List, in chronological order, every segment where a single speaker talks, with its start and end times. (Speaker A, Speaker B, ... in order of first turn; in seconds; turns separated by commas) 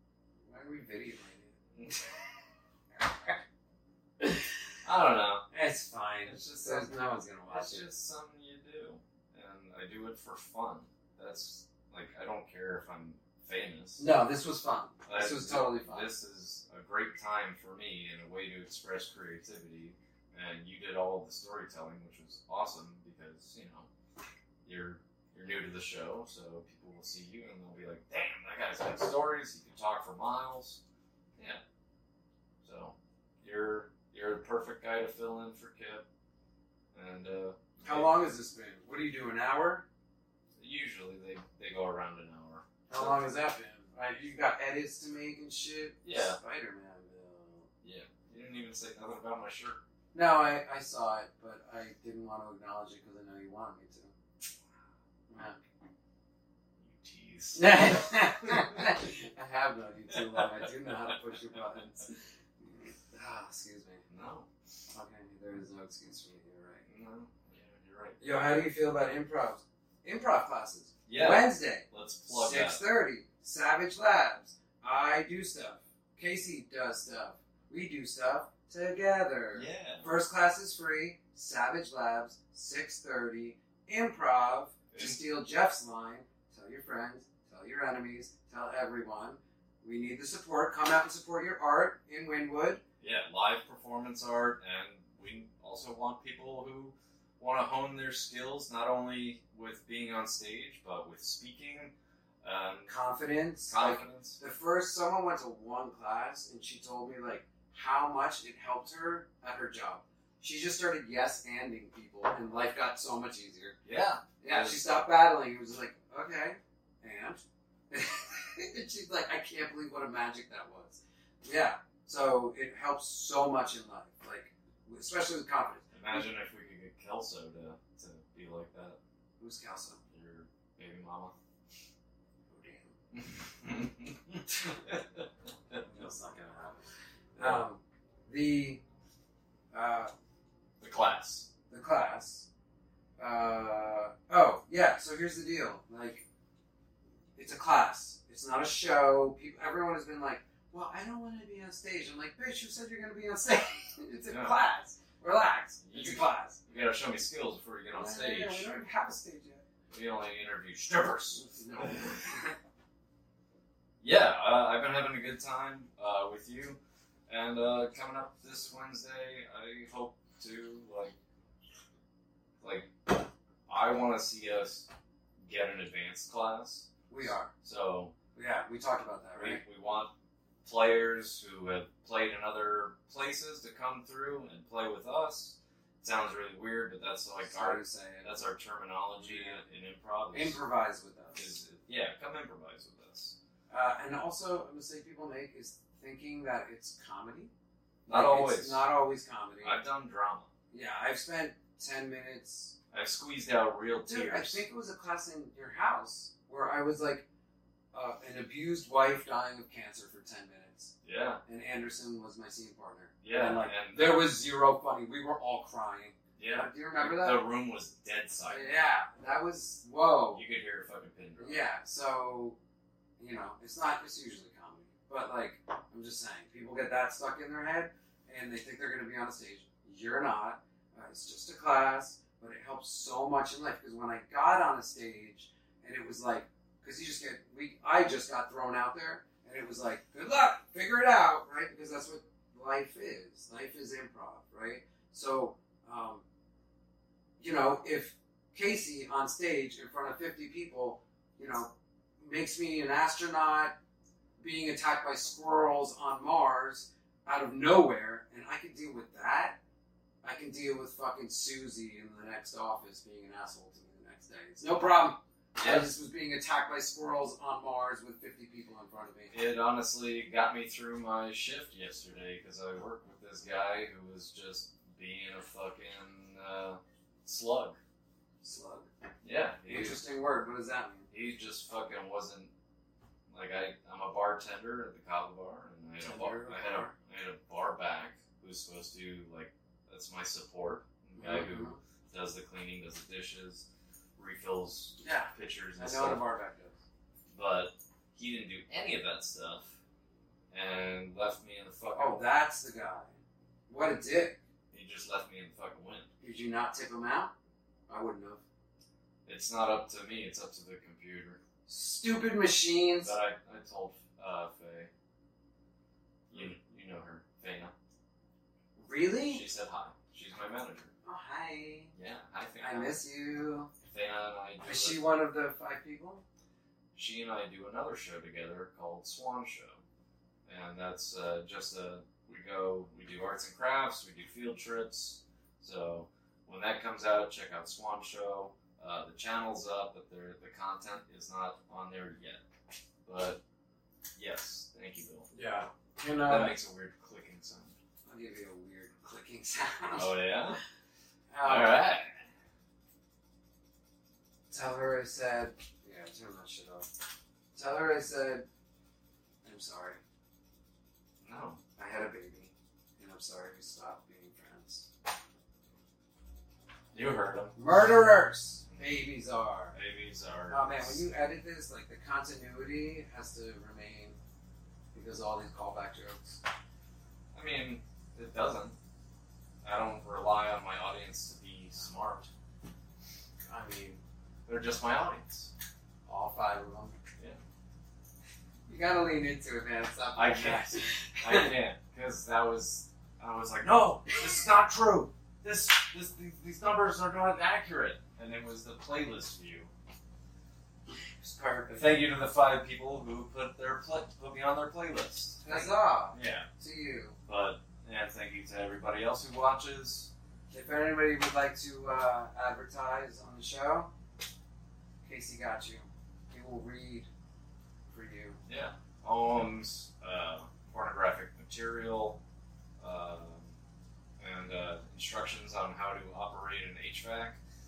Speaker A: 0.5-1.5, Speaker B: 1.8-2.0, Speaker B: 4.8-5.5, Speaker A: 5.5-7.8, Speaker B: 6.2-6.9, Speaker B: 7.5-14.1, Speaker A: 14.0-16.1, Speaker B: 15.1-23.9, Speaker B: 24.6-30.8, Speaker B: 32.6-36.0, Speaker B: 36.9-38.1, Speaker A: 37.8-39.8, Speaker B: 40.6-43.3, Speaker A: 42.9-47.7, Speaker B: 46.0-46.4, Speaker B: 47.8-49.8, Speaker A: 50.1-54.1, Speaker A: 55.3-55.6, Speaker B: 56.8-58.9, Speaker A: 57.5-64.0, Speaker B: 60.1-61.1, Speaker B: 64.1-64.5, Speaker A: 64.9-66.8, Speaker B: 66.9-68.5, Speaker A: 68.2-92.8, Speaker B: 71.1-72.8, Speaker B: 79.5-80.1, Speaker B: 84.9-85.2, Speaker B: 93.0-102.9, Speaker A: 102.9-113.8, Speaker B: 103.7-104.4, Speaker B: 113.8-114.8, Speaker A: 114.4-126.2, Speaker B: 125.9-129.0, Speaker A: 129.4-130.0, Speaker B: 130.1-131.3, Speaker A: 132.5-132.9, Speaker B: 133.1-135.8, Speaker A: 135.8-136.8, Speaker A: 137.3-138.8, Speaker A: 139.7-140.1, Speaker B: 140.8-141.5, Speaker A: 141.7-142.5, Speaker A: 143.2-146.2, Speaker A: 147.3-156.6, Speaker B: 154.3-154.6, Speaker B: 155.8-158.7, Speaker A: 157.9-159.6, Speaker B: 159.9-162.4, Speaker A: 161.3-162.5, Speaker B: 164.0-171.2, Speaker B: 172.6-174.9, Speaker B: 175.4-178.1, Speaker A: 177.1-177.5, Speaker A: 178.3-179.6, Speaker B: 179.3-180.1, Speaker B: 180.6-190.6, Speaker A: 187.4-188.4, Speaker A: 189.2-189.6, Speaker A: 190.3-191.5, Speaker B: 191.3-193.3, Speaker A: 193.7-197.5, Speaker A: 198.1-199.8, Speaker B: 198.1-198.9, Speaker B: 199.6-200.5, Speaker A: 200.7-202.7, Speaker B: 202.9-204.6, Speaker A: 204.0-207.2, Speaker A: 207.9-210.9, Speaker B: 211.0-211.4, Speaker A: 211.4-217.4, Speaker B: 213.2-214.2, Speaker B: 216.4-218.9, Speaker A: 218.5-220.4, Speaker B: 220.3-221.6, Speaker A: 221.4-222.6, Speaker A: 223.2-246.2, Speaker A: 247.4-253.8, Speaker A: 254.4-259.6, Speaker A: 260.2-269.3, Speaker B: 265.6-265.9, Speaker B: 269.3-277.8, Speaker A: 278.4-278.9, Speaker B: 279.2-280.0, Speaker A: 279.7-281.1, Speaker B: 281.1-282.5, Speaker B: 283.3-293.6, Speaker A: 286.0-286.9, Speaker A: 291.1-291.8, Speaker B: 294.2-296.2, Speaker A: 295.0-296.8, Speaker B: 297.3-299.8, Speaker B: 300.5-302.2, Speaker A: 301.9-303.1, Speaker A: 303.7-304.4, Speaker B: 304.7-306.1, Speaker A: 306.2-307.3, Speaker A: 307.9-308.4, Speaker B: 309.2-311.4, Speaker A: 311.7-313.1, Speaker B: 313.0-314.9, Speaker B: 316.3-317.7, Speaker A: 318.8-319.4, Speaker B: 319.3-320.9, Speaker A: 321.1-321.9, Speaker B: 321.9-323.0, Speaker A: 322.6-323.7, Speaker B: 323.8-325.0, Speaker A: 324.6-326.2, Speaker B: 326.9-329.8, Speaker B: 330.4-342.4, Speaker B: 343.0-343.4, Speaker B: 344.1-345.3, Speaker A: 345.3-346.6, Speaker B: 346.2-347.7, Speaker A: 348.1-350.1, Speaker B: 349.9-350.6, Speaker A: 351.3-351.8, Speaker B: 351.4-352.1, Speaker A: 354.5-356.9, Speaker A: 357.5-358.4, Speaker A: 359.4-360.0, Speaker B: 361.2-361.6, Speaker A: 361.8-364.9, Speaker B: 366.9-367.6, Speaker A: 367.6-369.8, Speaker B: 369.7-371.0, Speaker A: 370.5-374.2, Speaker A: 374.9-376.4, Speaker B: 377.3-378.8, Speaker B: 379.6-382.3, Speaker A: 383.5-384.0, Speaker B: 384.4-385.5, Speaker A: 386.1-386.9, Speaker A: 388.7-391.5, Speaker B: 390.1-399.7, Speaker A: 401.2-402.0, Speaker B: 401.8-406.5, Speaker A: 405.4-407.2, Speaker B: 407.2-410.1, Speaker A: 410.5-413.9, Speaker A: 415.0-417.1, Speaker A: 417.9-418.4, Speaker B: 418.5-422.2, Speaker B: 422.8-423.5, Speaker B: 424.2-427.4